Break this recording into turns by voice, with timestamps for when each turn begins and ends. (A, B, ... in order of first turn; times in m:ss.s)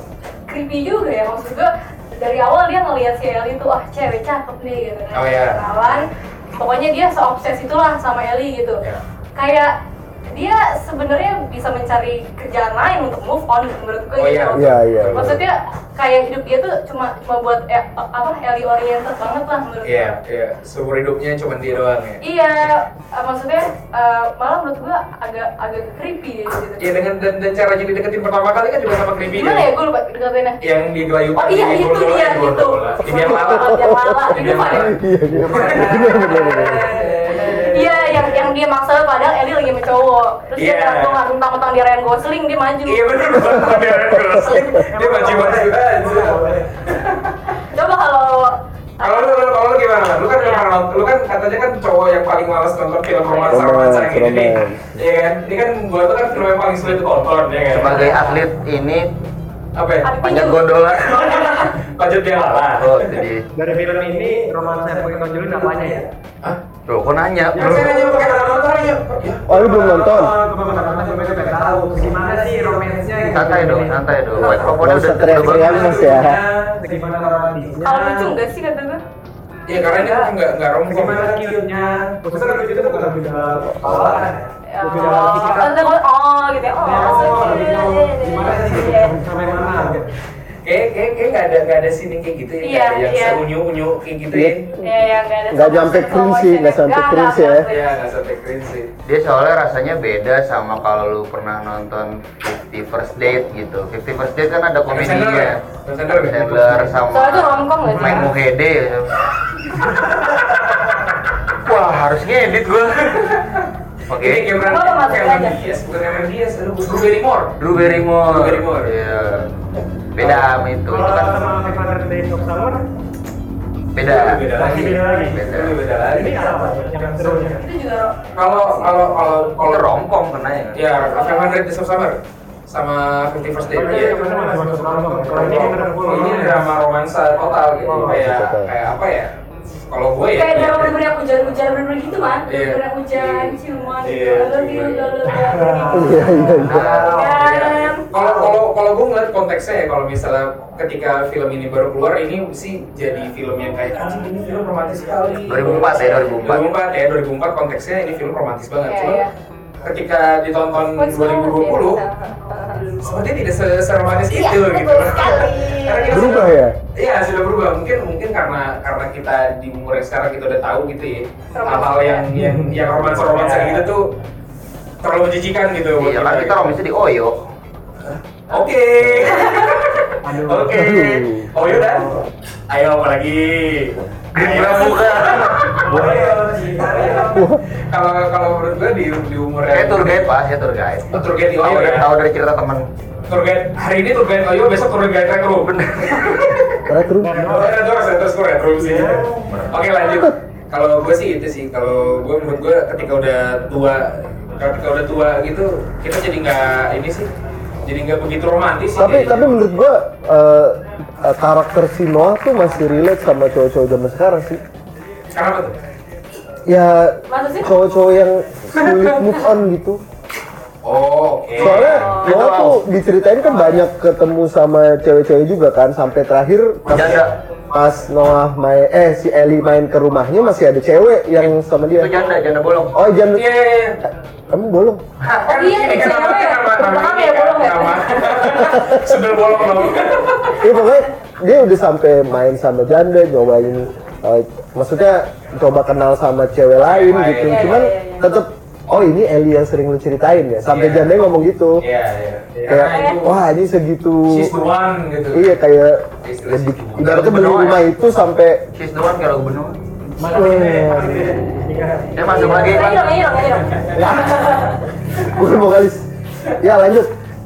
0:00.5-0:08.8 A
0:05.1-0:05.6 B
0:09.4-0:09.8 A
0:10.3-0:20.2 A
0:14.1-0:15.4 B
0:14.5-0:15.4 C
0:19.8-0:22.2 B
0:22.2-0:27.0 A
0:26.8-0:29.7 B
0:29.3-0:30.6 A
0:30.6-0:33.8 B
0:31.4-0:34.9 A
0:33.2-0:36.8 C
0:34.3-0:38.1 B
0:35.5-0:37.8 D
0:35.9-0:43.0 A
0:40.6-0:41.2 B
0:42.9-0:47.3 B
0:44.8-0:46.7 D
0:47.6-0:49.6 A
0:49.0-0:58.1 B
0:50.4-0:50.7 A
0:53.2-0:53.6 A
0:53.5-0:55.0 C
0:57.7-0:59.1 E
0:59.8-1:00.1 B
1:00.0-1:00.8 A
1:00.2-1:01.4 E
1:00.9-1:03.2 B
1:02.8-1:03.4 E
1:03.6-1:06.1 D
1:06.9-1:08.1 E
1:07.6-1:14.0 D
1:07.6-1:09.4 B
1:09.5-1:10.4 C
1:13.3-1:16.0 E
1:14.4-1:16.4 C
1:15.4-1:16.4 B
1:15.9-1:18.4 D
1:17.8-1:19.0 A
1:19.7-1:21.6 B
1:19.9-1:20.3 D
1:20.9-1:25.7 D
1:23.8-1:24.2 C
1:24.7-1:29.2 A
1:26.8-1:30.0 D
1:30.6-1:34.7 B
1:32.6-1:33.4 A
1:34.3-1:34.8 C
1:34.8-1:38.0 A
1:35.5-1:37.6 C
1:37.7-1:38.9 B
1:39.1-1:45.6 E
1:44.9-1:47.0 B
1:46.1-1:49.1 E
1:47.1-1:48.3 A
1:51.6-1:53.3 E
1:53.2-1:58.9 B
1:54.1-1:54.5 E
1:54.6-1:55.6 A
1:57.6-1:59.5 E
2:00.2-2:01.4 E
2:00.9-2:02.8 D
2:04.0-2:05.8 E
2:04.0-2:06.4 B
2:04.6-2:05.4 D
2:06.0-2:07.7 D
2:07.6-2:08.2 A
2:08.4-2:09.9 B
2:09.6-2:10.9 E
2:10.8-2:19.3 B
2:11.0-2:11.6 A
2:13.7-2:16.7 D
2:17.9-2:18.2 D
2:18.0-2:18.7 C
2:19.9-2:21.1 B
2:20.3-2:26.4 A
2:22.5-2:25.2 B
2:25.3-2:27.5 D
2:25.9-2:27.1 C
2:26.7-2:27.2 E
2:26.7-2:39.2 B
2:27.1-2:28.4 A
2:35.5-2:36.7 E
2:38.9-2:39.3 A
2:39.8-2:42.0 B
2:41.0-2:42.9 A
2:43.0-2:54.1 B
2:44.3-2:46.4 A
2:46.1-2:46.8 C
2:51.5-2:52.3 A
2:52.4-2:53.9 D
2:55.0-2:56.7 B
2:56.0-2:57.4 E
2:58.1-3:02.1 B
2:59.2-2:59.8 A
3:00.2-3:01.0 D
3:00.7-3:01.5 C
3:01.6-3:02.2 D
3:02.7-3:06.3 B
3:04.3-3:05.9 E
3:05.8-3:07.5 D
3:07.3-3:07.6 C
3:07.8-3:10.3 B
3:09.7-3:12.9 E
3:11.1-3:12.1 B
3:13.3-3:16.8 B
3:15.6-3:16.4 E
3:16.9-3:17.5 C
3:17.2-3:17.8 D
3:17.4-3:27.3 B
3:18.8-3:19.4 D
3:27.8-3:29.5 B
3:29.0-3:34.6 C
3:35.3-3:35.8 B
3:36.7-3:40.0 C
3:37.3-3:37.7 A
3:38.8-3:39.1 B
3:40.8-3:41.9 B
3:41.6-3:52.2 C
3:41.6-3:42.8 E
3:41.7-3:42.4 A
3:46.9-3:47.3 E
3:51.4-3:53.0 E
3:52.9-3:53.5 C
3:53.3-3:54.0 B
3:54.5-3:55.0 C
3:55.4-4:00.7 B
3:55.5-3:58.7 A
3:59.7-4:00.2 A
4:00.6-4:11.8 C
4:06.8-4:07.8 B
4:07.5-4:08.3 A
4:10.6-4:11.2 B
4:11.8-4:13.4 B
4:12.7-4:14.6 C
4:12.9-4:13.2 A
4:14.3-4:15.6 B
4:15.3-4:18.6 C
4:16.2-4:17.2 B
4:17.0-4:17.8 E
4:18.8-4:19.8 E
4:20.2-4:22.2 D
4:20.3-4:21.3 C
4:22.2-4:23.1 E
4:22.2-4:24.8 A
4:24.0-4:24.5 C
4:25.2-4:26.0 C
4:26.6-4:27.1 C